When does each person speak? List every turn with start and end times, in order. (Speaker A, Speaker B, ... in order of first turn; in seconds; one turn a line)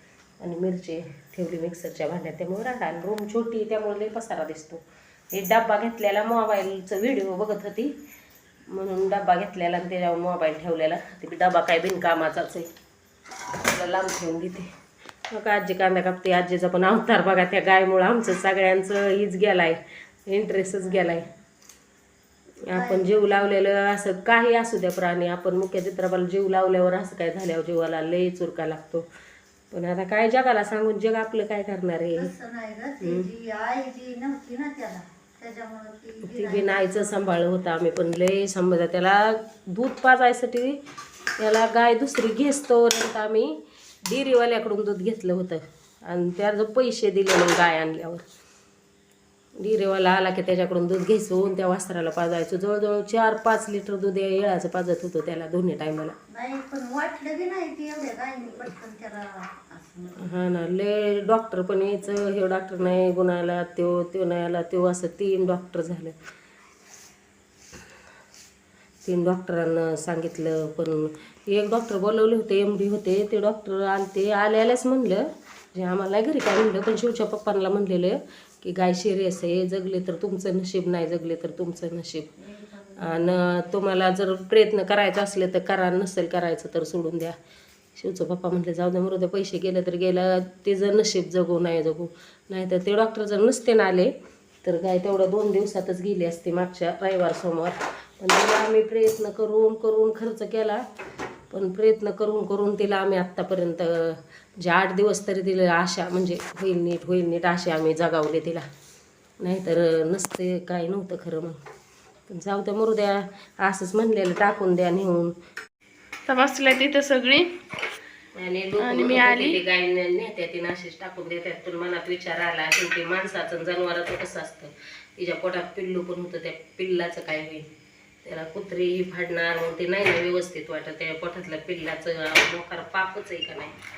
Speaker A: 0.4-7.9
Speaker A: 8.7-12.7
Speaker A: 13.6-14.7
Speaker A: 15.3-21.3
Speaker B: 20.5-21.3
Speaker A: 22.7-29.1
Speaker B: 22.7-23.6
Speaker A: 29.7-32.3
Speaker B: 32.1-37.2
Speaker A: 33.0-33.3
Speaker A: 36.2-40.8
Speaker A: 41.4-43.5
Speaker A: 44.1-48.2
Speaker A: 49.6-56.1
Speaker B: 56.3-60.3
Speaker A: 60.2-66.2
Speaker A: 69.0-82.3
Speaker B: 82.4-83.8
Speaker A: 83.0-87.3
Speaker A: 88.0-94.1
Speaker A: 94.6-100.8
Speaker A: 101.5-108.6
Speaker A: 109.4-111.6
Speaker A: 112.3-115.3
Speaker C: 116.3-117.5
Speaker A: 118.3-127.7
Speaker C: 118.8-119.6
Speaker A: 128.2-133.7